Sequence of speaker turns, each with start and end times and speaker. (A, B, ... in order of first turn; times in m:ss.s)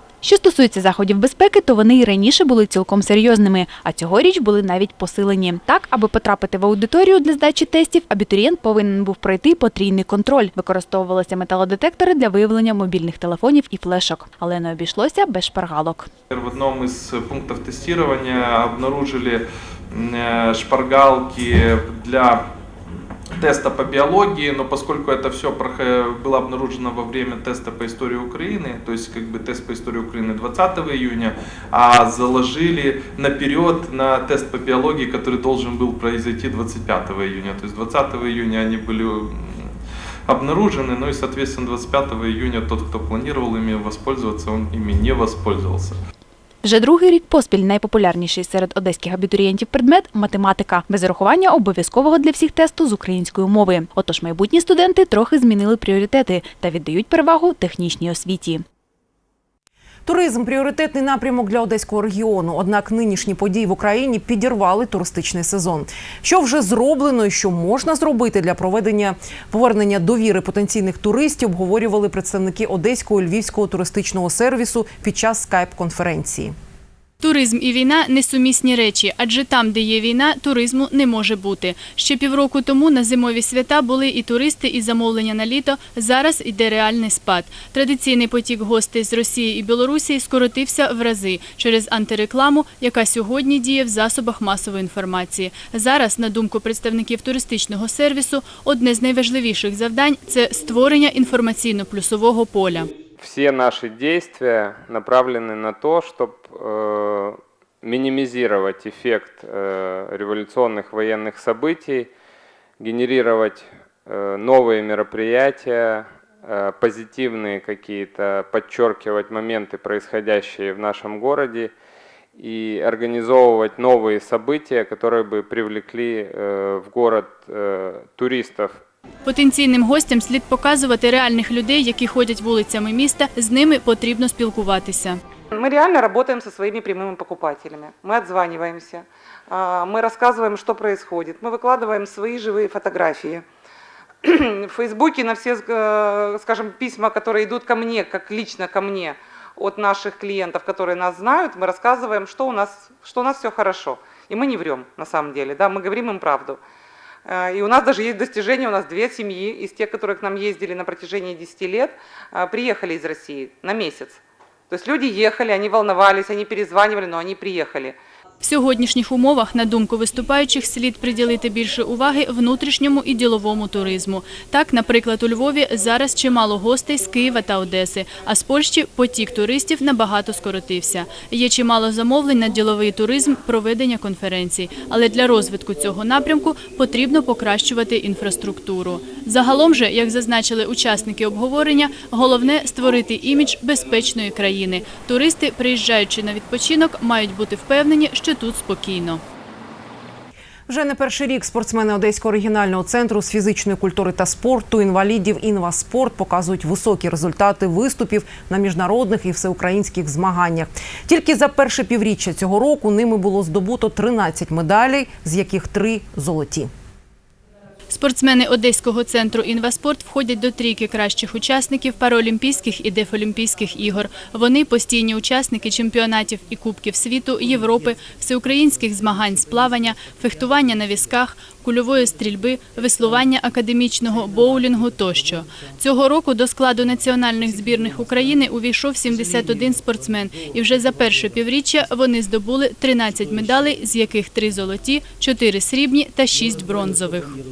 0:00.2-0:16.1 A
0:16.3-0:22.5 B
0:23.3-0:46.0 B
0:46.6-0:58.6 A
1:00.1-1:16.6 C
1:17.2-1:42.9 D
1:43.2-1:52.1 E
1:52.8-2:01.7 E
2:02.4-2:08.8 E
2:09.2-2:15.2 D
2:15.6-2:23.4 F
2:24.2-2:36.6 F
2:37.3-2:48.0 F
2:48.4-3:19.2 D
3:20.7-3:36.7 C
3:37.9-4:07.4 D